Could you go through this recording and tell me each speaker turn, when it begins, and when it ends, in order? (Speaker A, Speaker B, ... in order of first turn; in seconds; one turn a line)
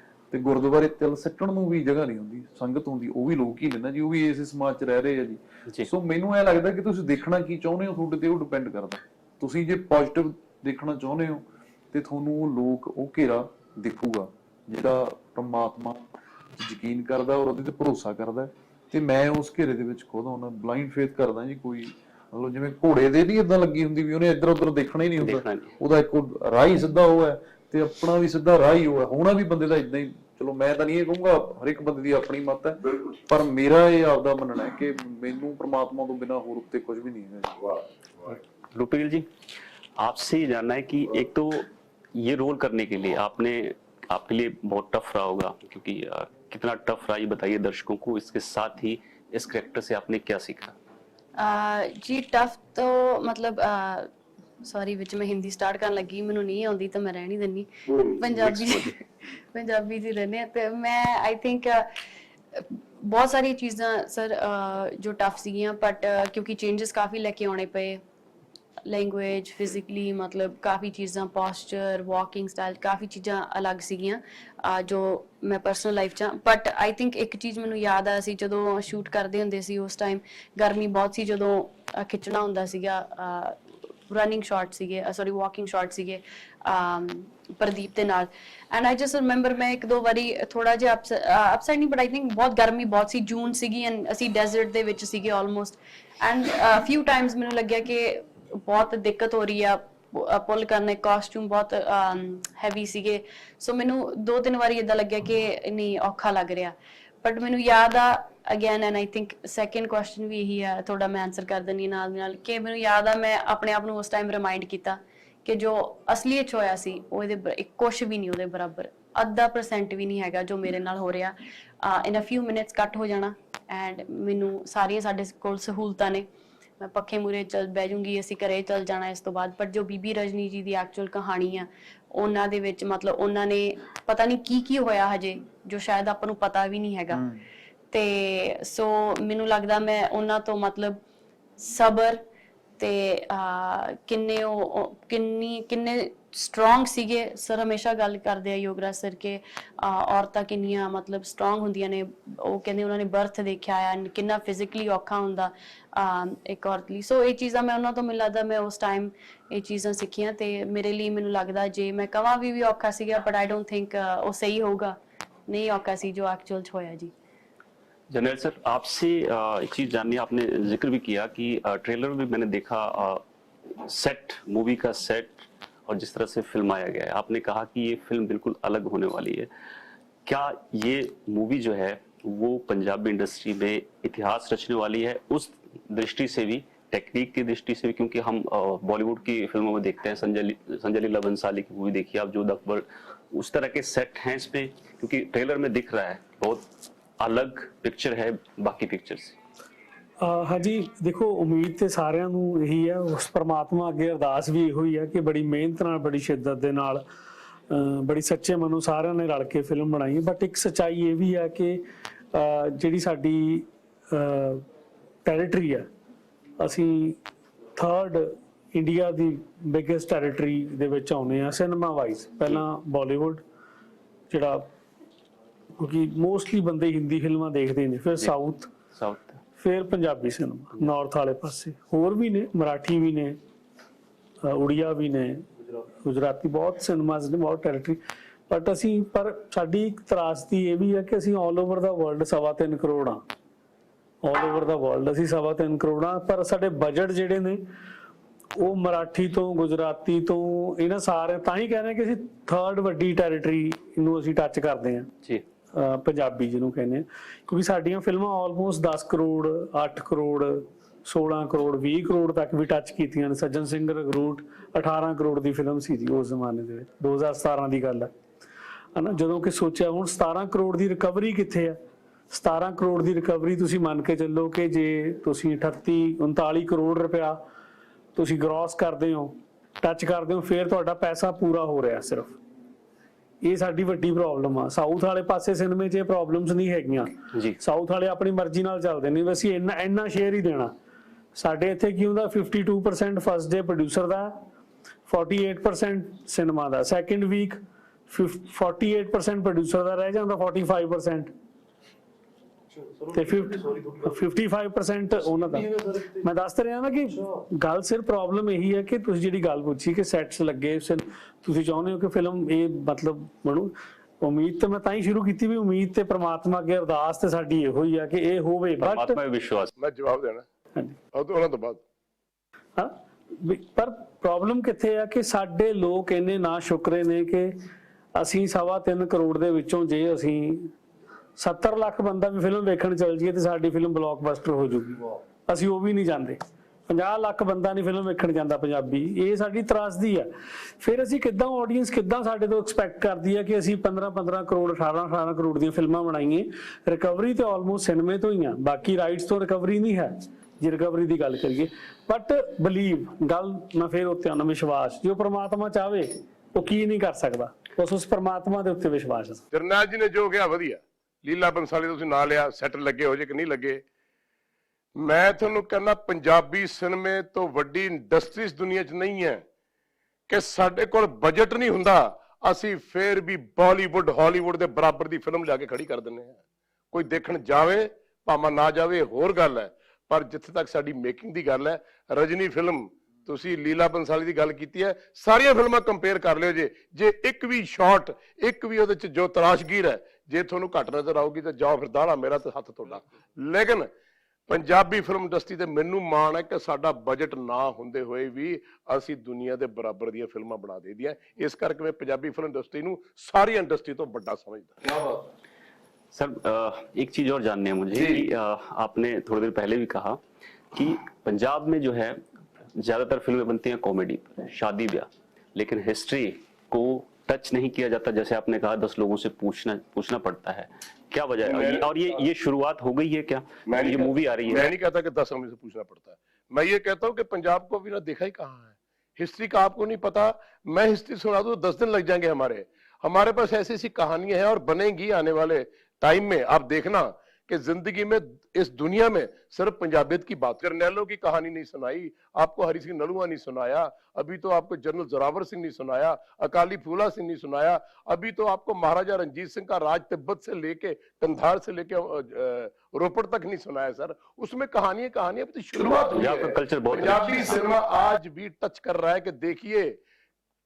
Speaker A: 0.3-16.1
Speaker A: 16.6-37.5
Speaker B: 25.2-25.7
Speaker C: 37.6-38.3
Speaker B: 38.7-39.3
Speaker B: 40.0-50.8
Speaker D: 51.4-54.1
Speaker D: 54.6-59.0
Speaker C: 57.9-58.2
Speaker B: 58.3-58.9
Speaker D: 59.5-61.9
Speaker D: 62.5-68.0
Speaker D: 68.9-83.5
Speaker D: 84.1-126.2
Speaker D: 126.8-137.2
Speaker A: 137.1-137.4
Speaker D: 137.9-141.0
Speaker D: 141.6-142.2
Speaker D: 142.8-165.0
Speaker D: 165.5-167.1
Speaker B: 168.1-173.2
Speaker B: 173.8-179.5
Speaker B: 180.2-196.7
Speaker B: 197.2-199.4
Speaker E: 200.2-207.0
Speaker E: 207.7-211.8
Speaker E: 212.3-214.6
Speaker E: 215.2-215.9
Speaker E: 216.6-217.2
Speaker E: 217.8-223.4
Speaker E: 224.3-224.6
Speaker E: 225.8-228.7
Speaker B: 228.9-229.4
Speaker E: 229.6-233.4
Speaker E: 234.4-235.5
Speaker E: 236.0-243.2
Speaker E: 244.2-247.6
Speaker E: 248.6-255.1
Speaker E: 255.7-268.1
Speaker E: 268.9-271.8
Speaker E: 272.3-277.4
Speaker E: 278.1-282.4
Speaker E: 283.4-290.7
Speaker E: 291.4-294.3
Speaker E: 295.1-301.3
Speaker E: 303.1-319.1
Speaker B: 318.8-319.7
Speaker C: 319.8-320.5
Speaker C: 321.1-321.8
Speaker E: 322.8-327.5
Speaker E: 328.1-330.7
Speaker E: 331.4-340.3
Speaker E: 340.8-359.4
Speaker C: 359.5-363.8
Speaker C: 364.9-369.4
Speaker C: 370.3-376.4
Speaker C: 376.9-393.9
Speaker C: 394.5-404.8
Speaker B: 406.1-410.2
Speaker B: 410.7-412.2
Speaker B: 412.8-424.7
Speaker C: 421.4-421.9
Speaker C: 423.6-460.0
Speaker B: 455.9-457.7